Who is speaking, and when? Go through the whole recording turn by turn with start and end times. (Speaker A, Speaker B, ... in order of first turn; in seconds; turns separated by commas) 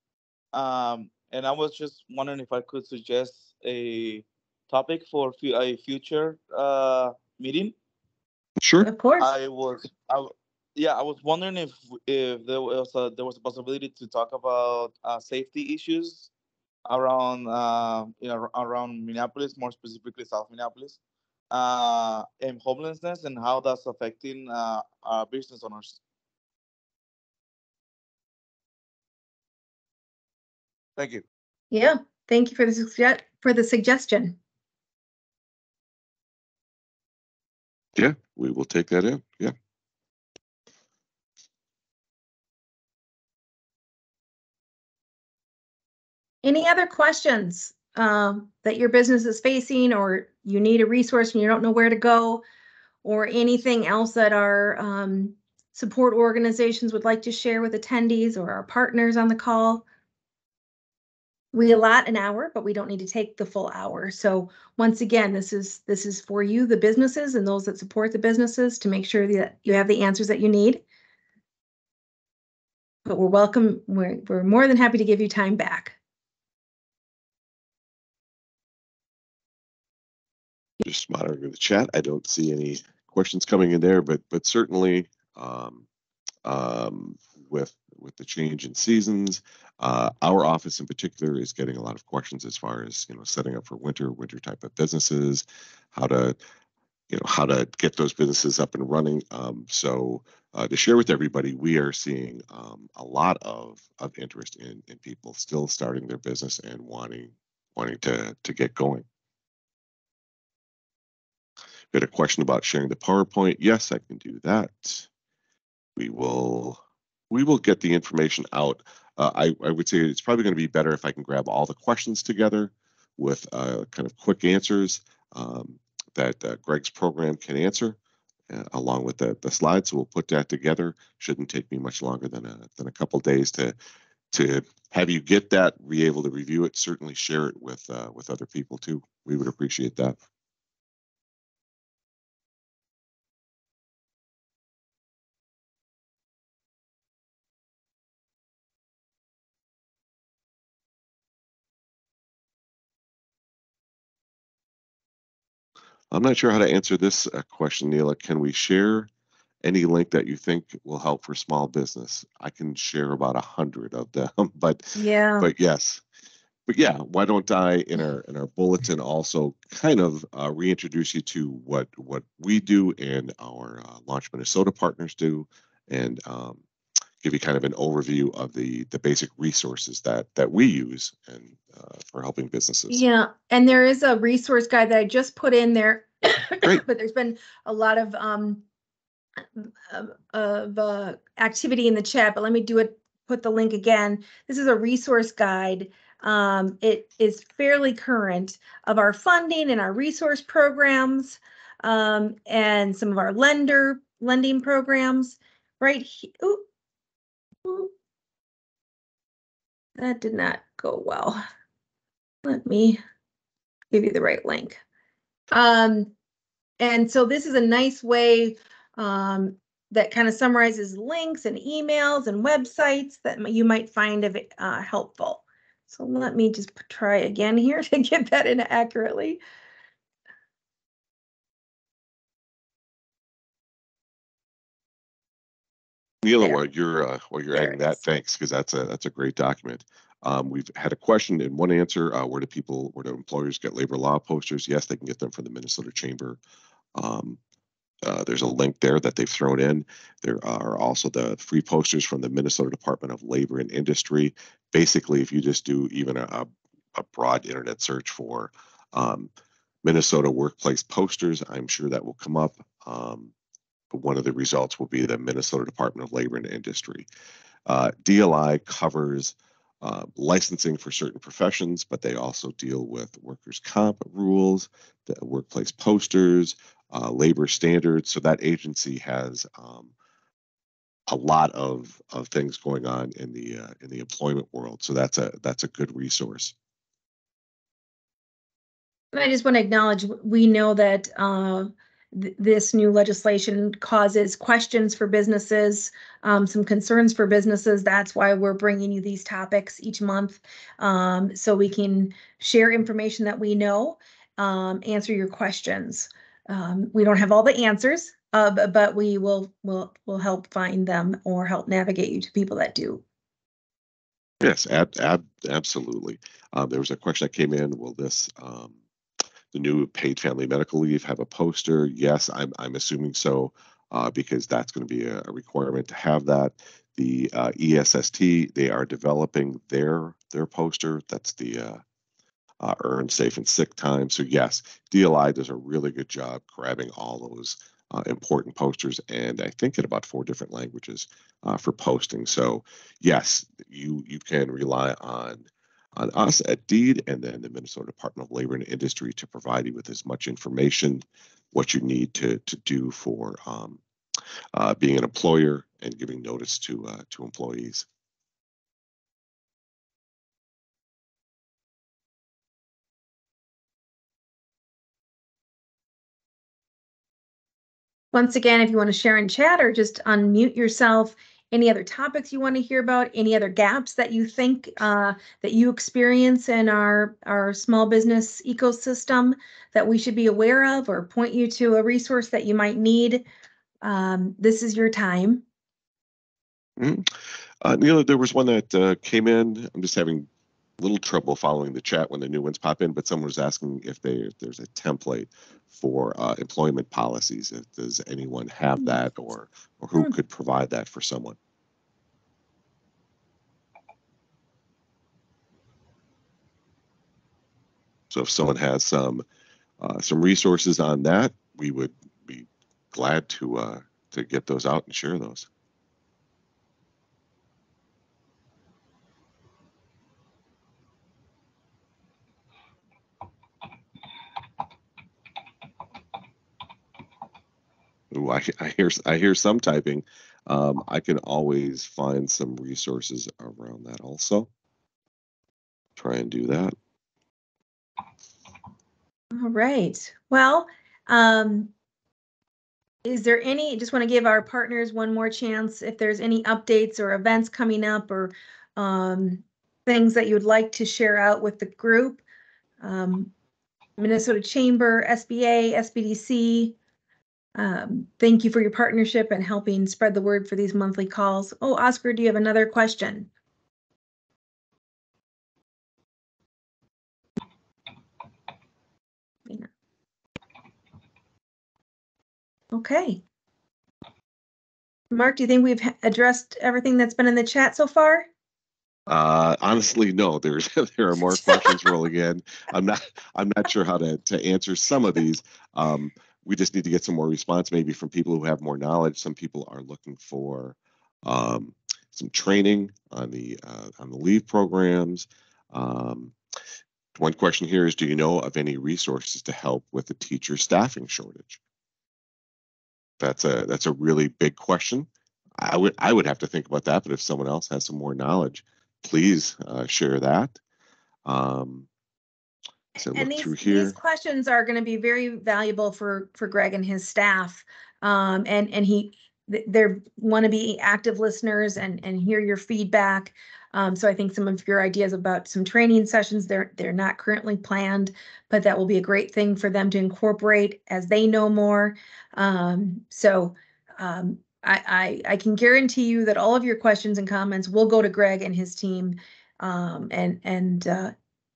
Speaker A: 0.5-7.7, Speaker B: 8.6-8.9, Speaker C: 8.8-9.3, Speaker A: 9.2-16.3, Speaker A: 16.9-21.0, Speaker A: 21.5-26.0, Speaker A: 31.0-31.2, Speaker C: 31.7-34.4, Speaker B: 38.0-39.5, Speaker C: 46.4-52.4, Speaker C: 53.0-59.8, Speaker C: 61.5-70.8, Speaker C: 73.0-76.0, Speaker B: 80.8-85.8, Speaker B: 86.4-96.4, Speaker B: 97.1-109.0, Speaker B: 111.9-115.1, Speaker B: 116.0-128.0, Speaker B: 128.5-133.8, Speaker B: 134.3-140.2, Speaker B: 156.1-159.1, Speaker B: 159.6-166.0, Speaker C: 164.9-165.5, Speaker B: 166.7-176.6, Speaker B: 177.2-183.0, Speaker C: 182.9-188.6, Speaker C: 189.5-206.6, Speaker C: 207.6-207.9, Speaker C: 210.0-211.4, Speaker C: 212.4-213.0, Speaker C: 213.9-214.8, Speaker C: 215.5-216.1, Speaker C: 216.8-229.4, Speaker B: 236.2-246.4, Speaker C: 237.5-238.0, Speaker B: 246.9-247.4, Speaker B: 248.0-259.3, Speaker B: 259.8-263.3, Speaker B: 263.9-267.1, Speaker B: 267.7-279.9, Speaker B: 281.1-286.5, Speaker C: 289.1-313.0, Speaker B: 314.4-318.7, Speaker B: 319.5-331.8, Speaker B: 332.6-353.8, Speaker B: 354.5-357.8, Speaker C: 368.1-383.2, Speaker C: 383.8-385.4, Speaker B: 386.8-390.3, Speaker B: 390.8-401.4, Speaker B: 408.1-409.2, Speaker B: 409.8-415.5, Speaker B: 428.1-434.5, Speaker B: 436.0-436.7, Speaker C: 439.3-441.7, Speaker C: 443.1-452.2, Speaker C: 452.8-453.3, Speaker C: 454.0-456.8, Speaker C: 457.6-463.3, Speaker C: 472.7-473.2, Speaker C: 475.1-478.3, Speaker B: 479.1-496.3, Speaker C: 481.5-481.8, Speaker B: 497.1-501.6, Speaker B: 503.2-505.1, Speaker B: 505.6-510.6, Speaker B: 511.3-511.9, Speaker B: 513.0-513.9, Speaker C: 513.0-541.1